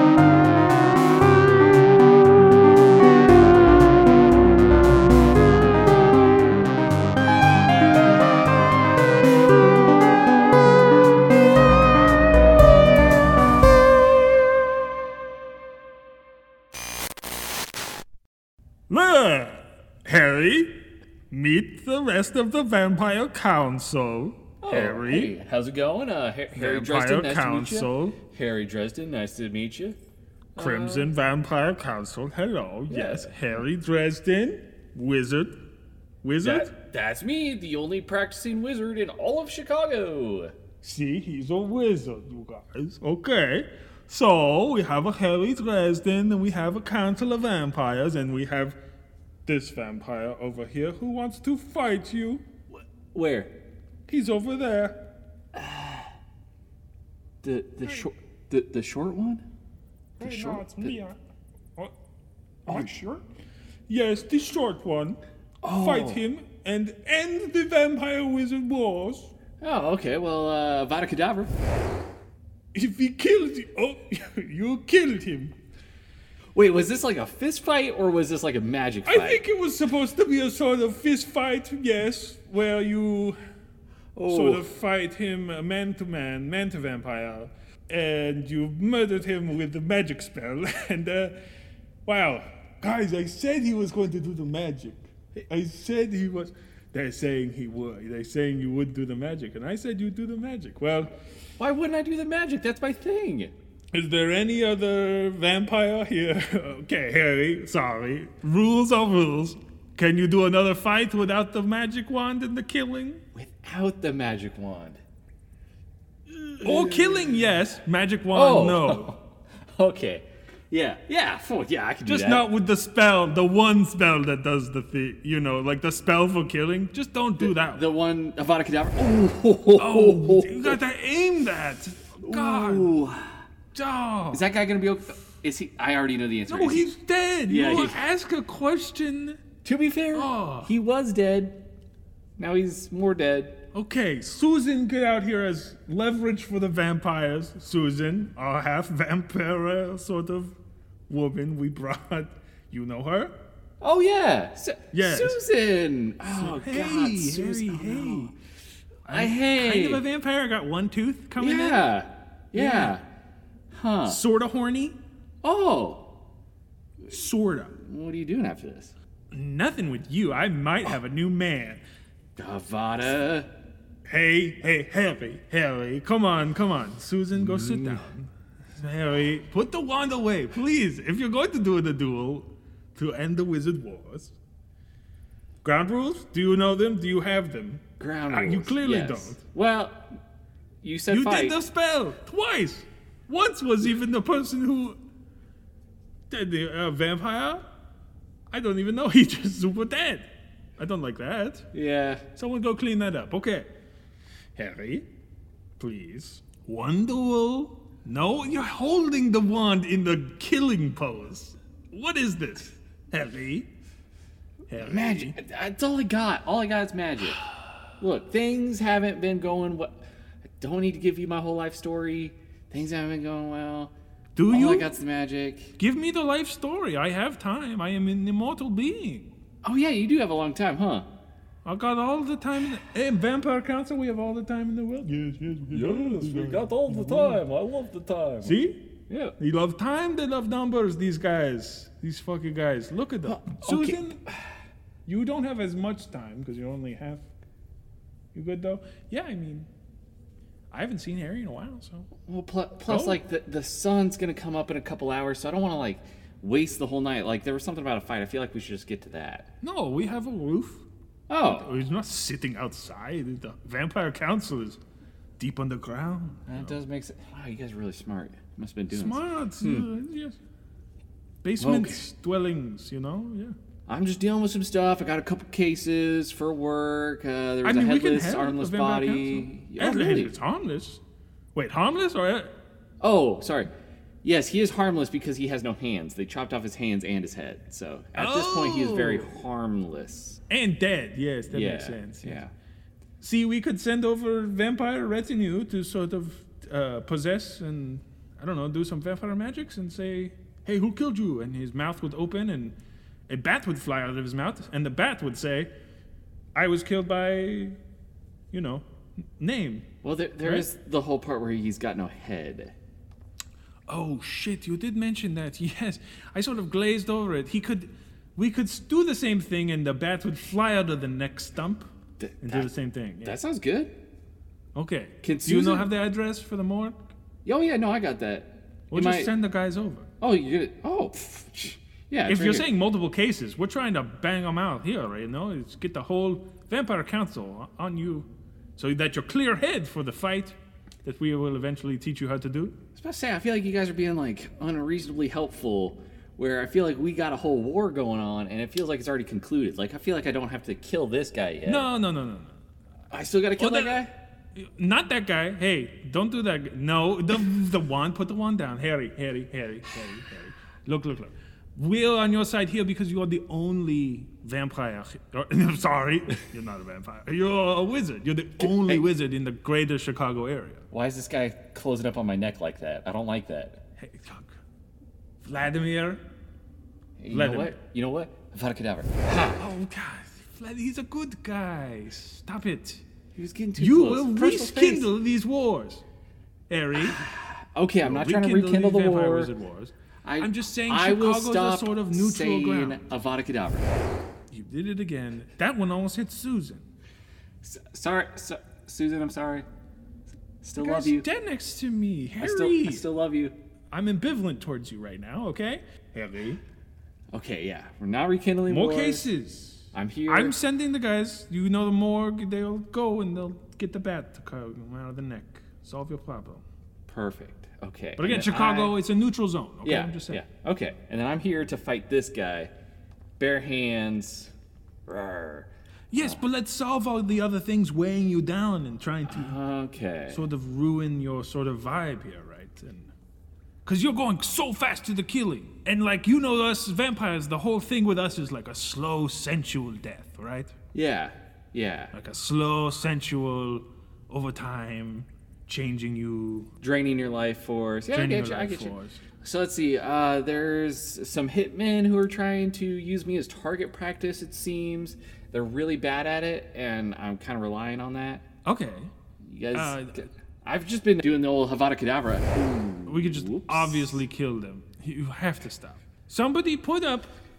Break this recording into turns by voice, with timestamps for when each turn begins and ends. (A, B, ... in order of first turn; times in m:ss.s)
0:18.9-0:25.4 A
0:24.6-0:30.0 B
0:26.5-0:28.2 A
0:30.6-0:31.1 B
0:30.6-0:35.6 A
0:32.9-0:33.3 B
0:36.2-0:36.7 A
0:36.4-0:40.6 B
0:40.8-0:48.8 A
0:49.5-0:52.4 A
0:52.7-0:53.5 B
0:54.1-0:55.0 A
0:55.6-0:56.1 B
0:57.4-0:59.4 B
1:00.2-1:01.0 B
1:00.2-1:01.2 A
1:02.7-1:03.2 A
1:03.9-1:09.3 A
1:05.6-1:06.2 B
1:09.6-1:11.5 B
1:12.7-1:15.6 A
1:16.5-1:19.4 B
1:19.0-1:23.4 A
1:24.2-1:24.7 B
1:24.3-1:31.4 A
1:32.0-1:41.1 A
1:41.6-1:43.5 B
1:43.9-1:53.2 A
1:53.4-1:55.0 B
1:56.3-1:57.4 B
1:56.6-1:59.1 A
1:58.3-2:02.5 B
2:02.0-2:07.8 A
2:07.4-2:10.8 B
2:09.8-2:13.0 A
2:12.2-2:13.3 B
2:13.7-2:14.4 A
2:14.3-2:16.9 B
2:16.5-2:19.4 A
2:17.5-2:18.0 B
2:19.6-2:21.6 B
2:20.1-2:20.7 A
2:22.4-2:23.6 B
2:23.7-2:30.6 A
2:31.1-2:33.3 A
2:33.8-2:38.3 B
2:34.9-2:35.4 A
2:36.2-2:38.3 A
2:39.0-2:41.9 A
2:39.1-2:40.0 B
2:41.4-2:43.0 B
2:42.5-2:43.0 A
2:43.7-2:44.2 B
2:44.1-2:45.0 A
2:45.4-2:46.1 B
2:47.1-2:47.8 A
2:47.8-2:48.9 B
2:49.3-2:51.8 A
2:52.4-2:53.5 B
2:54.1-3:04.4 A
2:57.4-2:58.1 B
3:05.6-3:09.4 A
3:08.0-3:10.1 B
3:10.8-3:11.6 B
3:11.1-3:15.0 A
3:16.3-3:17.6 A
3:18.5-3:21.7 A
3:21.7-3:22.2 B
3:22.4-3:23.7 A
3:24.6-3:25.1 A
3:25.8-3:33.7 A
3:34.7-3:35.4 A
3:34.8-3:37.4 B
3:38.0-3:40.0 B
3:40.6-3:43.9 B
3:44.4-3:44.9 A
3:44.5-3:45.7 B
3:45.8-3:49.3 A
3:49.6-3:51.1 B
3:51.6-3:57.4 A
3:55.7-3:58.6 B
3:58.4-3:58.8 A
3:59.1-3:59.4 B
3:59.4-4:04.2 A
4:03.2-4:04.5 B
4:05.0-4:07.3 A
4:08.3-4:09.7 A
4:10.7-4:12.1 A
4:12.3-4:19.5 B
4:12.9-4:13.2 A
4:19.6-4:20.8 A
4:21.3-4:21.7 B
4:21.4-4:24.8 A
4:25.4-4:26.8 A
4:26.5-4:29.9 B
4:28.9-4:30.4 A
4:31.4-4:33.6 A
4:31.6-4:32.0 B
4:33.9-4:40.3 B
4:37.6-4:41.0 A
4:41.6-4:42.5 A
4:43.0-4:43.7 B
4:44.2-4:50.4 B
4:48.2-4:49.4 A
4:50.5-4:52.4 A
4:51.5-4:52.5 B
4:53.2-5:02.8 A
5:03.3-5:05.7 A
5:06.6-5:07.8 A
5:08.5-5:08.9 A
5:09.4-5:09.8 A
5:10.0-5:12.7 B
5:13.9-5:21.9 A
5:22.2-5:22.7 B
5:22.4-5:23.4 A
5:23.2-5:23.9 B
5:24.8-5:27.0 A
5:25.2-5:25.9 B
5:27.4-5:29.3 B
5:28.9-5:30.0 A
5:30.2-5:32.7 B
5:32.3-5:42.7 A
5:43.0-5:51.9 B
5:51.6-5:52.5 A
5:53.1-5:54.1 B
5:53.6-5:54.0 A
5:54.6-6:10.8 A
6:08.6-6:09.0 B
6:10.9-6:13.8 B
6:14.0-6:14.6 A
6:15.4-6:16.2 A
6:17.2-6:19.7 B
6:17.3-6:17.7 A
6:19.6-6:23.0 A
6:23.4-6:25.1 B
6:23.8-6:26.0 A
6:26.7-6:27.2 A
6:27.0-6:29.5 B
6:28.0-6:33.0 A
6:30.2-6:33.9 B
6:34.5-6:36.8 A
6:37.6-6:39.7 B
6:40.6-6:41.3 B
6:40.8-6:43.0 A
6:42.4-6:43.6 B
6:43.9-6:46.6 A
6:47.3-6:49.3 B
6:48.7-6:56.6 A
6:49.9-6:50.6 B
6:57.1-6:59.0 B
6:58.2-7:00.4 A
6:59.8-7:02.7 B
7:03.4-7:04.5 B
7:05.1-7:05.7 B
7:06.1-7:09.6 A
7:09.3-7:10.4 B
7:10.3-7:13.1 A
7:13.8-7:20.7 A
7:20.9-7:22.1 B
7:22.1-7:26.7 A
7:26.8-7:38.4 B
7:28.1-7:29.2 A
7:38.6-7:39.1 A
7:39.4-7:44.2 B
7:39.7-7:40.3 A
7:43.1-7:47.3 A